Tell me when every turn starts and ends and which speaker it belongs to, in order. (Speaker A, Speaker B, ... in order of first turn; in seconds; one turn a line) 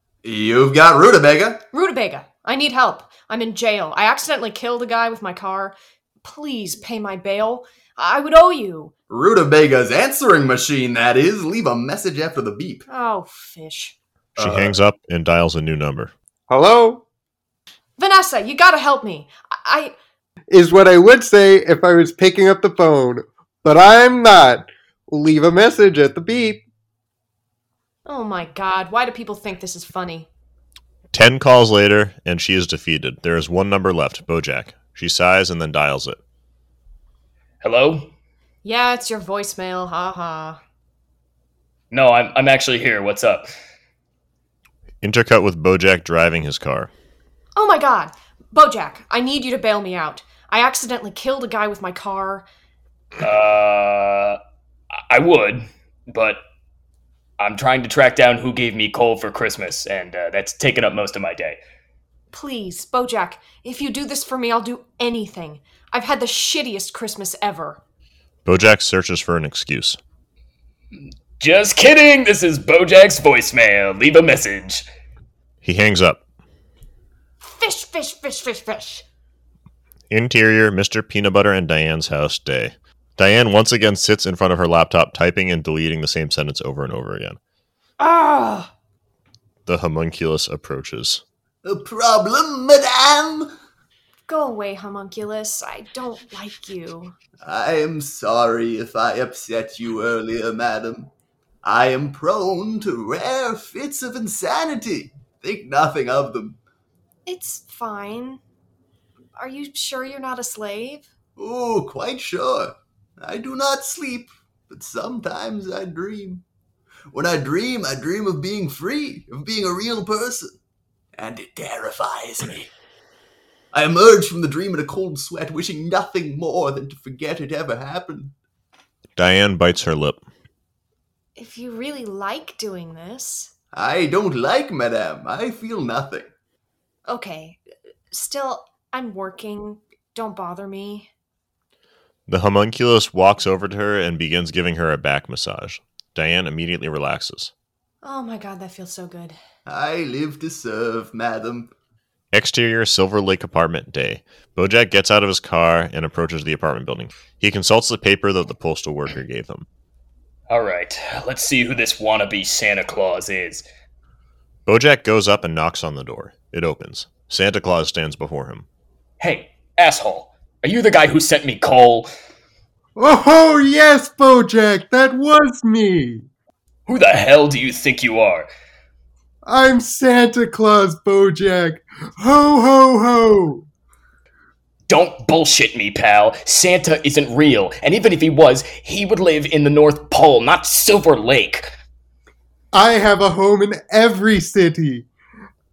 Speaker A: 0.2-1.6
Speaker B: 1.7-8.9
Speaker A: 9.1-12.9
Speaker B: 12.9-14.0
Speaker C: 14.4-16.1
Speaker A: 14.4-14.7
Speaker D: 16.5-17.0
Speaker B: 18.0-19.9
Speaker D: 20.5-26.6
Speaker B: 28.1-30.3
Speaker C: 31.1-36.2
Speaker E: 37.6-38.1
Speaker B: 38.6-40.6
Speaker E: 41.9-43.5
Speaker C: 45.0-46.9
Speaker B: 47.6-52.5
Speaker E: 53.2-54.4
Speaker E: 55.1-56.4
Speaker E: 57.4-61.6
Speaker B: 62.3-67.8
Speaker C: 68.5-70.0
Speaker E: 71.4-74.8
Speaker C: 75.6-76.2
Speaker B: 77.4-79.0
Speaker C: 80.1-87.4
Speaker B: 88.0-88.7
Speaker C: 89.7-91.2
Speaker A: 91.6-93.5
Speaker B: 94.3-97.2
Speaker A: 97.4-101.1
Speaker A: 101.6-106.6
Speaker B: 107.3-108.4
Speaker B: 109.4-111.1
Speaker A: 111.4-116.4
Speaker A: 117.1-120.5
Speaker A: 121.2-122.7
Speaker A: 123.7-128.3
Speaker C: 129.2-130.2
Speaker B: 131.4-133.5
Speaker A: 133.7-136.3
Speaker B: 137.1-141.1
Speaker C: 142.3-147.5
Speaker B: 148.0-149.4
Speaker A: 149.7-151.7
Speaker C: 152.3-159.7
Speaker E: 160.5-163.7
Speaker C: 164.7-168.7
Speaker E: 169.2-172.1
Speaker D: 173.0-176.3
Speaker E: 176.9-178.5
Speaker D: 179.4-183.7
Speaker E: 184.9-191.7
Speaker D: 192.7-195.1